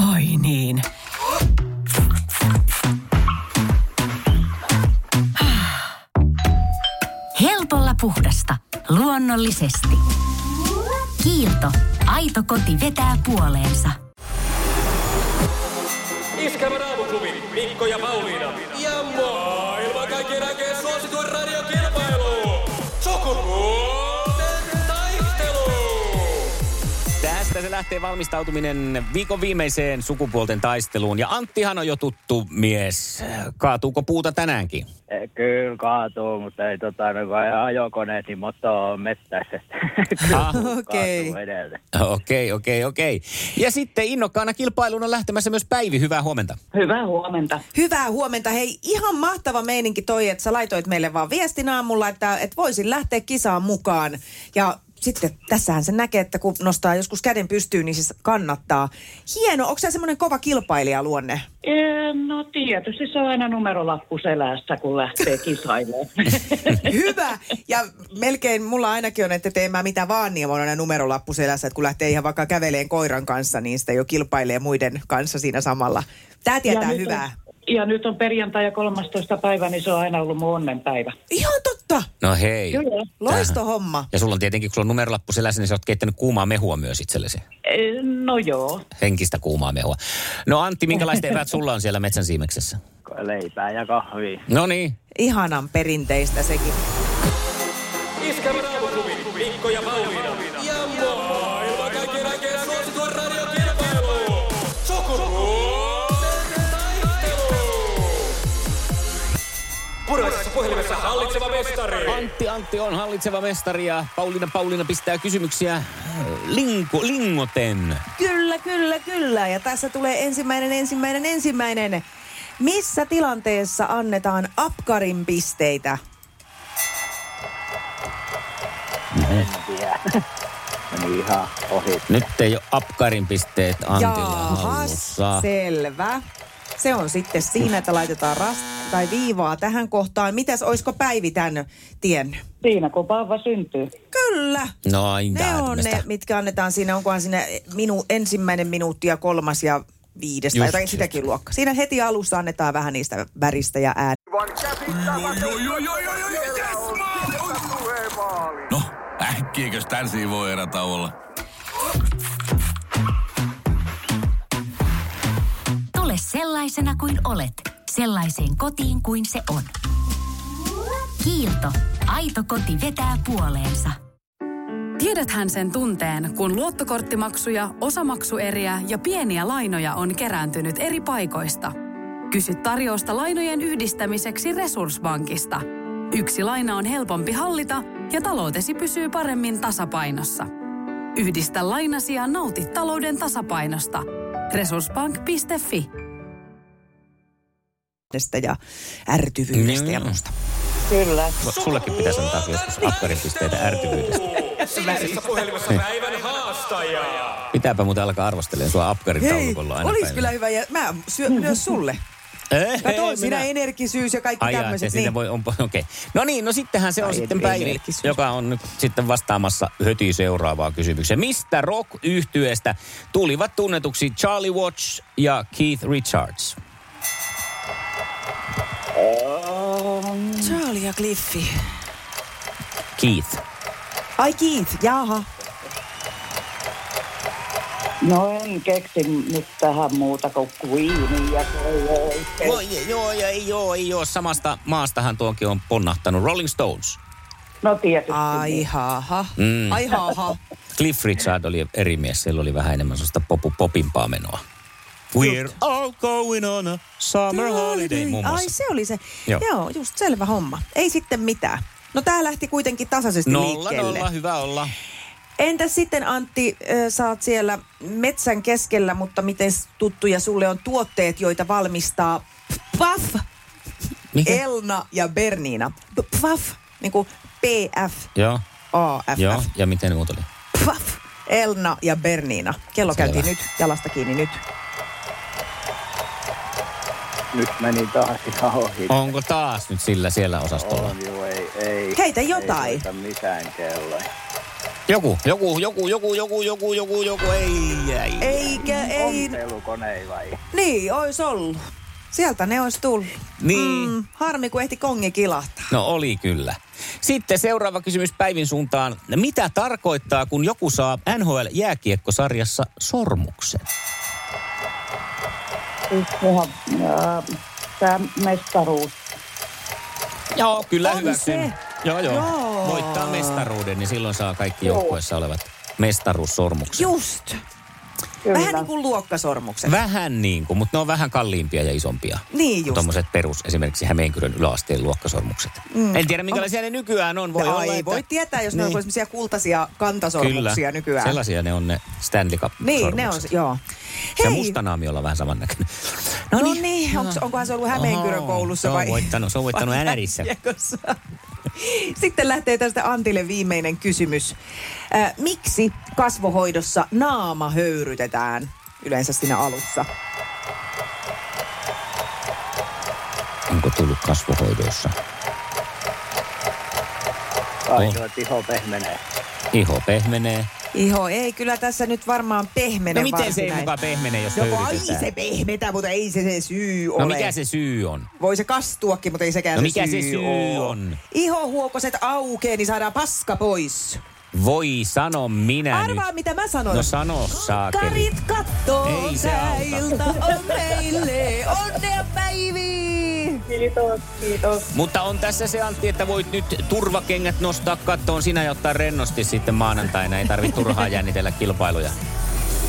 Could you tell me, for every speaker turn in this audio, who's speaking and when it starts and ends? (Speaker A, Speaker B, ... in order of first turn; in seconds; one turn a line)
Speaker A: 7.4-10.0
Speaker A: 11.2-14.0
Speaker B: 16.4-26.1
Speaker C: 27.2-34.9
Speaker D: 35.1-41.8
Speaker C: 40.3-40.6
Speaker E: 40.4-41.4
Speaker C: 41.9-46.6
Speaker F: 46.7-47.6
Speaker E: 47.7-61.5
Speaker F: 61.7-66.7
Speaker E: 66.7-77.3
Speaker F: 76.7-81.2
Speaker E: 81.3-82.1
Speaker C: 82.2-83.6
Speaker F: 82.7-83.1
Speaker E: 83.2-84.1
Speaker C: 84.1-87.4
Speaker F: 87.7-88.8
Speaker C: 89.0-92.8
Speaker D: 93.1-94.4
Speaker C: 94.5-95.0
Speaker E: 95.2-96.8
Speaker B: 98.3-107.9
Speaker B: 110.1-112.1
Speaker C: 112.0-118.0
Speaker E: 118.2-122.0
Speaker E: 122.6-126.0
Speaker C: 129.2-129.5
Speaker D: 129.3-130.0
Speaker D: 130.9-132.1
Speaker C: 132.1-135.4
Speaker E: 133.9-136.2
Speaker E: 136.8-142.4
Speaker F: 142.6-143.9
Speaker E: 144.1-144.8
Speaker C: 144.8-146.1
Speaker E: 145.3-154.2
Speaker C: 150.5-151.2
Speaker G: 154.9-157.4
Speaker B: 155.2-155.6
Speaker G: 158.7-161.1
Speaker A: 165.9-169.7
Speaker A: 171.2-174.0
Speaker H: 175.0-181.7
Speaker H: 182.3-190.5
Speaker H: 191.2-195.9
Speaker E: 198.1-200.3
Speaker C: 199.5-200.2
Speaker F: 200.9-201.3
Speaker C: 201.4-204.3
Speaker E: 204.6-205.4
Speaker B: 204.8-207.4
Speaker C: 207.5-210.3
Speaker E: 209.2-212.0
Speaker C: 212.5-213.5
Speaker E: 212.8-215.2
Speaker C: 214.4-226.6
Speaker E: 217.0-218.2
Speaker F: 229.0-230.5
Speaker E: 230.4-231.5
Speaker C: 233.0-233.4
Speaker E: 234.2-235.3
Speaker F: 238.0-242.6
Speaker C: 242.4-247.0
Speaker F: 247.6-248.6
Speaker E: 248.1-250.4
Speaker C: 249.4-250.0
Speaker C: 250.8-254.4
Speaker C: 255.1-258.5
Speaker E: 255.2-255.6
Speaker E: 257.3-264.1
Speaker C: 263.3-264.7
Speaker E: 265.4-273.2
Speaker C: 274.1-274.4
Speaker E: 274.2-278.1
Speaker C: 278.1-278.4
Speaker E: 278.7-279.5
Speaker C: 279.2-280.3
Speaker E: 280.5-284.4
Speaker C: 282.9-283.3
Speaker D: 287.3-289.1
Speaker C: 288.9-290.9
Speaker D: 290.5-294.1
Speaker E: 292.0-292.9
Speaker C: 294.9-298.7
Speaker E: 298.2-299.4
Speaker D: 298.7-300.4
Speaker E: 300.5-301.6
Speaker E: 302.1-305.7
Speaker C: 303.4-303.9
Speaker C: 305.7-313.7
Speaker F: 315.9-317.2
Speaker F: 317.8-319.0
Speaker C: 320.3-326.9
Speaker E: 320.8-323.5
Speaker F: 324.6-325.0
Speaker E: 326.7-327.4
Speaker F: 328.2-328.7
Speaker E: 328.3-329.8
Speaker C: 329.6-338.8
Speaker E: 332.3-332.9
Speaker E: 335.7-336.5
Speaker E: 337.4-341.2
Speaker C: 340.2-343.3
Speaker E: 342.6-343.6
Speaker E: 344.2-344.6
Speaker C: 344.2-350.3
Speaker E: 346.4-351.0
Speaker E: 351.6-354.4
Speaker E: 354.9-359.9
Speaker C: 363.5-364.9
Speaker D: 367.7-369.0
Speaker C: 369.5-370.5
Speaker E: 370.7-373.7
Speaker C: 372.9-375.1
Speaker E: 374.4-377.3
Speaker C: 377.0-378.1
Speaker E: 378.2-384.0
Speaker C: 379.6-381.0
Speaker C: 384.3-386.1
Speaker E: 385.7-393.4
Speaker C: 386.7-388.1
Speaker C: 388.8-390.2
Speaker F: 393.6-394.6
Speaker C: 394.7-402.0